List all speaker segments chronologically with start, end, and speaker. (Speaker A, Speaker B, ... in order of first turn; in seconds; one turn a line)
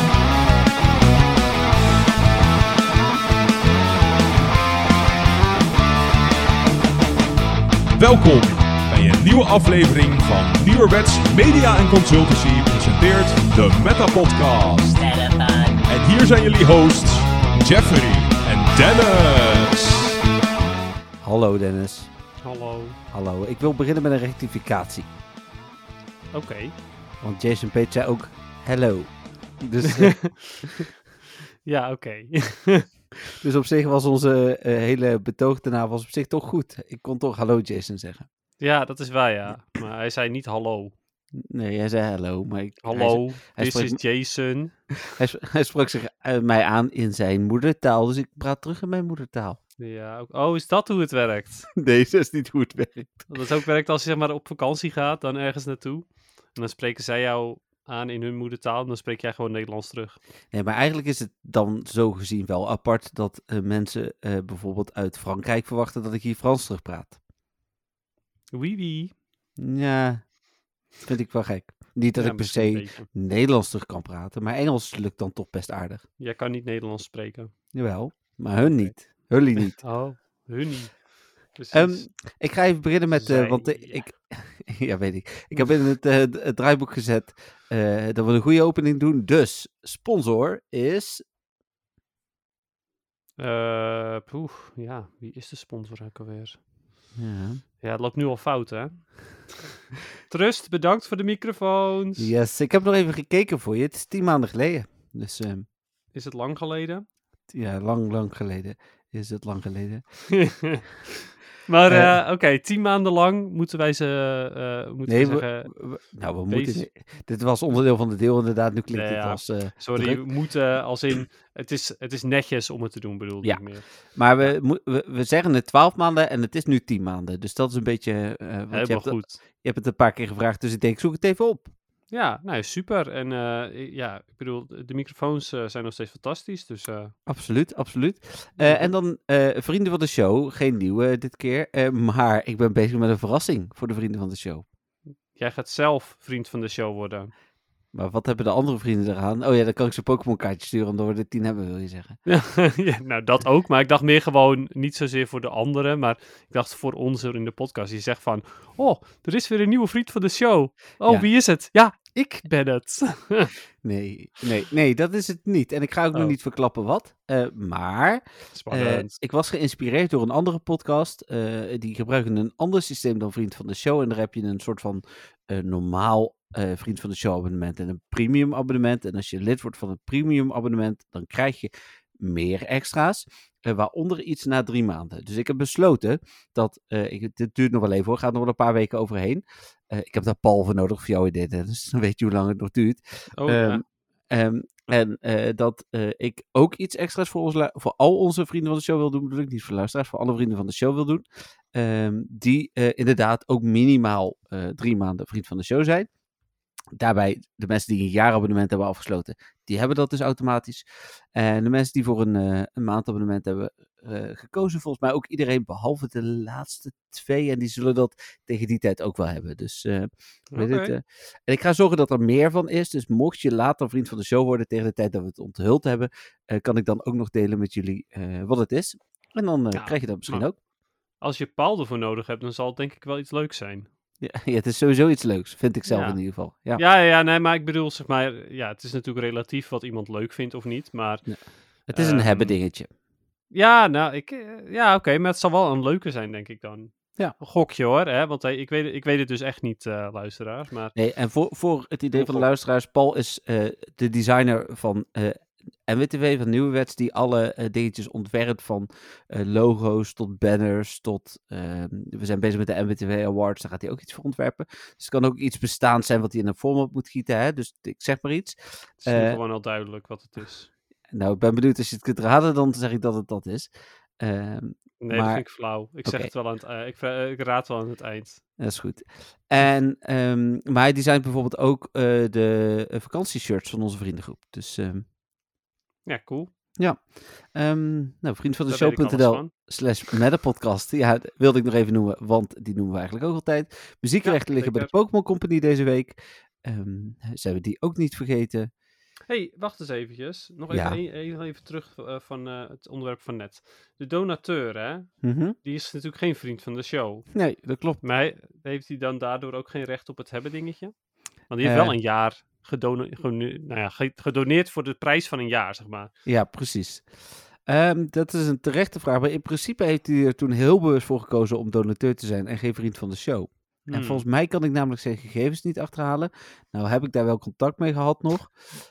Speaker A: 8.0-20.2
Speaker B: 21.2-22.1
Speaker C: 22.4-23.0
Speaker B: 23.1-25.1
Speaker C: 26.3-26.7
Speaker B: 27.2-30.4
Speaker C: 29.8-30.9
Speaker C: 31.6-32.9
Speaker B: 33.4-38.3
Speaker C: 38.6-40.9
Speaker B: 41.4-44.0
Speaker C: 42.8-44.8
Speaker B: 45.1-49.6
Speaker C: 49.8-51.7
Speaker B: 51.8-53.3
Speaker C: 53.3-60.2
Speaker B: 60.5-67.2
Speaker C: 68.5-69.1
Speaker B: 69.6-70.3
Speaker B: 71.0-76.0
Speaker C: 72.1-73.1
Speaker C: 76.2-77.5
Speaker B: 77.7-79.8
Speaker C: 78.6-78.9
Speaker C: 79.8-82.0
Speaker B: 81.7-91.2
Speaker C: 83.1-84.0
Speaker C: 93.4-96.6
Speaker B: 97.1-97.6
Speaker C: 97.8-99.5
Speaker C: 100.3-102.3
Speaker B: 102.2-105.7
Speaker C: 106.1-107.0
Speaker B: 107.5-110.0
Speaker C: 110.3-115.7
Speaker B: 111.9-112.1
Speaker B: 115.0-120.2
Speaker C: 116.5-116.8
Speaker C: 118.9-124.5
Speaker B: 123.4-131.7
Speaker C: 128.7-129.4
Speaker C: 132.1-137.1
Speaker B: 137.2-144.7
Speaker C: 138.6-138.9
Speaker C: 145.3-147.3
Speaker B: 147.9-152.2
Speaker C: 152.2-163.5
Speaker B: 163.8-206.1
Speaker C: 168.5-169.1
Speaker C: 193.3-193.8
Speaker B: 206.9-230.6
Speaker C: 220.5-220.9
Speaker C: 229.7-230.5
Speaker C: 231.2-233.9
Speaker B: 234.2-236.8
Speaker C: 235.9-236.2
Speaker C: 236.7-242.5
Speaker B: 241.2-242.9
Speaker C: 243.5-250.9
Speaker B: 250.9-269.4
Speaker C: 252.1-252.5
Speaker C: 269.0-270.7
Speaker B: 271.1-275.5
Speaker C: 275.0-278.4
Speaker B: 276.0-276.3
Speaker B: 278.6-285.1
Speaker C: 286.0-286.5
Speaker B: 286.8-298.7
Speaker C: 288.7-289.5
Speaker C: 294.2-294.9
Speaker C: 299.3-307.3
Speaker B: 300.7-301.0
Speaker B: 305.2-305.6
Speaker B: 307.3-308.0
Speaker C: 308.0-310.9
Speaker C: 311.5-316.1
Speaker B: 311.6-311.9
Speaker B: 316.2-317.1
Speaker B: 317.6-328.6
Speaker C: 323.9-324.2